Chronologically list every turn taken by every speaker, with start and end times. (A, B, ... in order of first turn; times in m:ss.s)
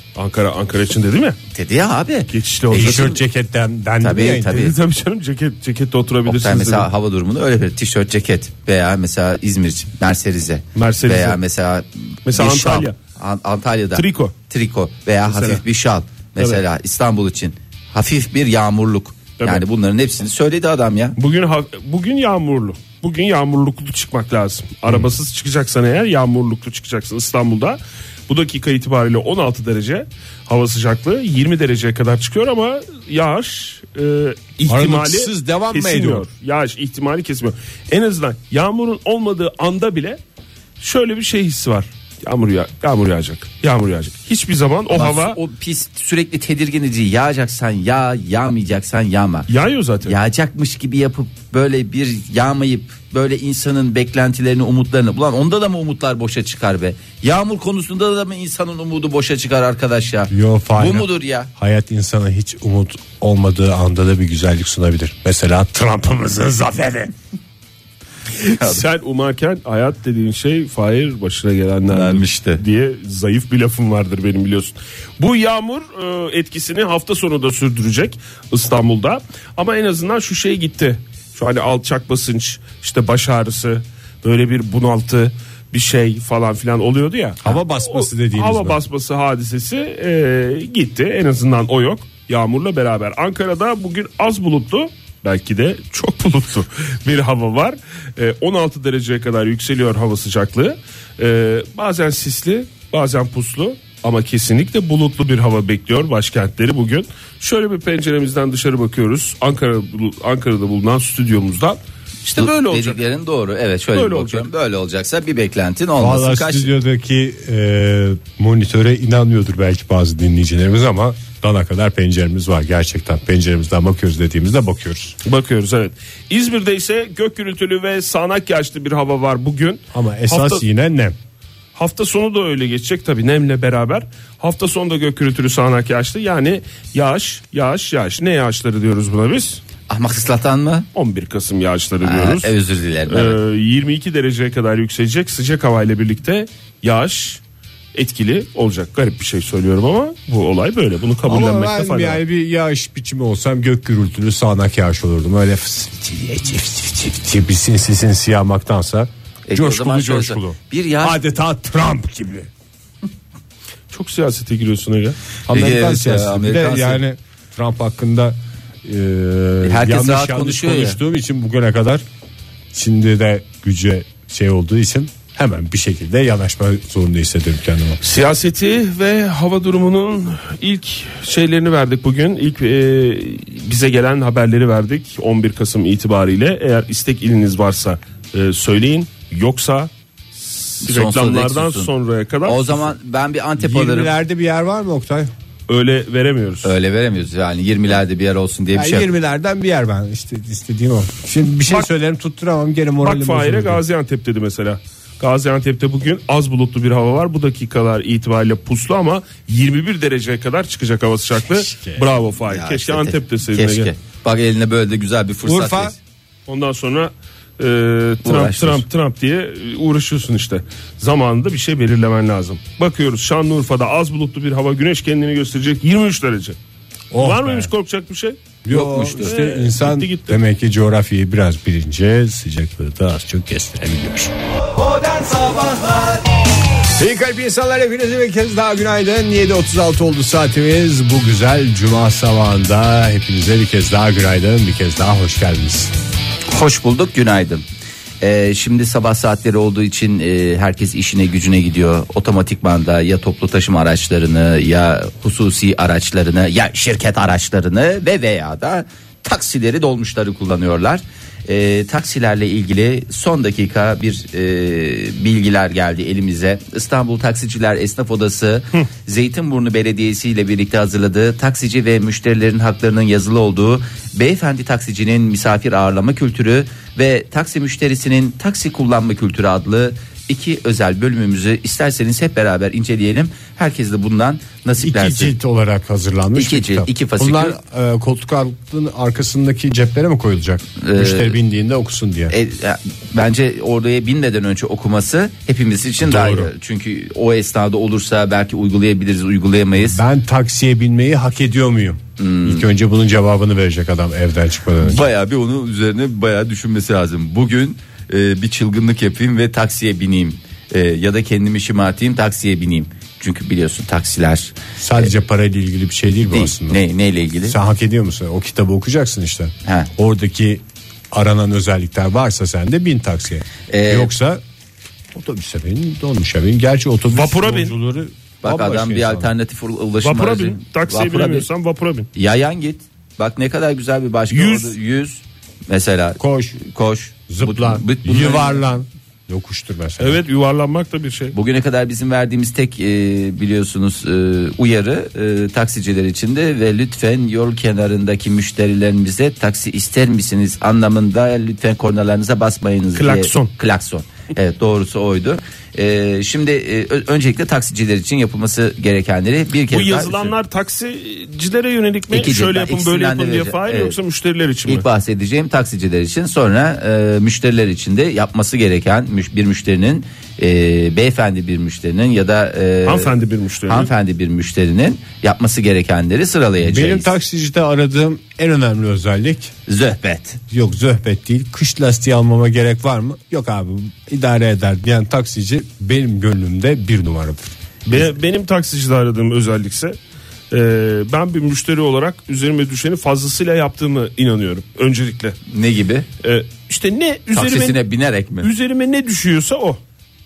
0:00.2-0:01.4 A
0:01.5-0:03.2 B
0:02.3-0:03.1 A
0:02.7-0:04.5 C
0:04.0-0:04.8 B
0:04.2-0:06.9 A
0:06.3-0:21.2 B
0:10.8-0:11.4 A
0:12.3-0:13.0 A
0:14.0-0:14.3 A
0:15.3-0:15.6 A
0:21.2-0:40.2 A
0:34.7-0:36.3 C
0:40.8-0:45.4 A
0:44.9-0:49.5 B
0:49.5-0:50.2 A
0:50.0-1:01.5 B
1:00.3-1:07.1 C
1:08.4-1:53.0 A
1:08.5-1:08.8 B
1:11.9-1:12.6 B
1:27.4-1:28.8 C
1:52.4-1:56.7 B
1:53.9-1:54.5 A
1:56.0-2:05.2 C
2:05.2-2:10.6 A
2:09.9-2:11.2 C
2:11.8-2:19.6 A
2:19.9-2:20.9 B
2:21.0-2:22.5 A
2:22.0-2:23.4 B
2:23.1-2:27.4 A
2:27.9-2:32.2 A
2:31.3-2:42.5 C
2:39.5-2:41.2 B
2:43.9-2:45.2 A
2:45.5-2:47.0 B
2:45.5-2:52.0 C
2:49.6-2:51.0 B
2:52.7-2:58.0 C
2:58.0-3:12.9 A
3:10.8-3:11.9 B
3:12.4-3:14.1 B
3:13.6-3:15.3 C
3:15.7-3:16.7 A
3:16.6-3:19.1 B
3:18.7-3:23.8 C
3:23.0-3:33.9 A
3:31.5-3:32.1 C
3:32.4-3:36.0 B
3:35.4-3:36.0 C
3:36.5-3:46.6 A
3:38.2-3:38.8 B
3:47.1-3:47.7 C
3:47.2-3:48.4 A
3:48.6-3:54.3 C
3:48.7-3:49.4 B
3:48.9-3:50.4 A
3:57.0-4:05.9 C
4:06.5-4:07.6 B
4:08.2-4:45.4 B
4:44.8-4:52.3 C
4:46.4-4:47.6 B
4:50.8-4:51.4 B
4:52.3-5:00.0 B
4:56.0-4:56.5 C
4:59.8-5:05.0 C
5:02.2-5:02.7 B
5:04.8-5:15.1 B
5:14.8-5:16.8 C
5:16.3-5:17.6 B
5:17.5-5:24.4 C
5:19.6-5:19.9 B
5:23.7-5:24.1 B
5:25.1-5:29.3 C
5:27.1-5:27.8 A
5:28.4-5:31.5 B
5:30.0-5:32.1 A
5:32.2-5:38.6 B
5:34.3-5:34.8 A
5:36.2-5:36.6 C
5:37.3-5:40.2 C
5:40.0-5:41.4 A
5:41.3-6:00.3 B
5:53.0-5:53.5 A
5:59.7-6:04.8 A
6:02.1-6:04.0 B
6:04.7-6:13.2 B
6:12.9-6:13.9 A
6:13.7-6:17.1 B
6:16.6-6:19.5 C
6:19.7-6:20.4 B
6:20.5-6:27.6 C
6:27.9-6:30.0 A
6:30.5-6:35.4 A
6:35.5-6:36.1 B
6:36.2-6:37.8 A
6:37.3-6:38.5 B
6:38.4-6:39.8 A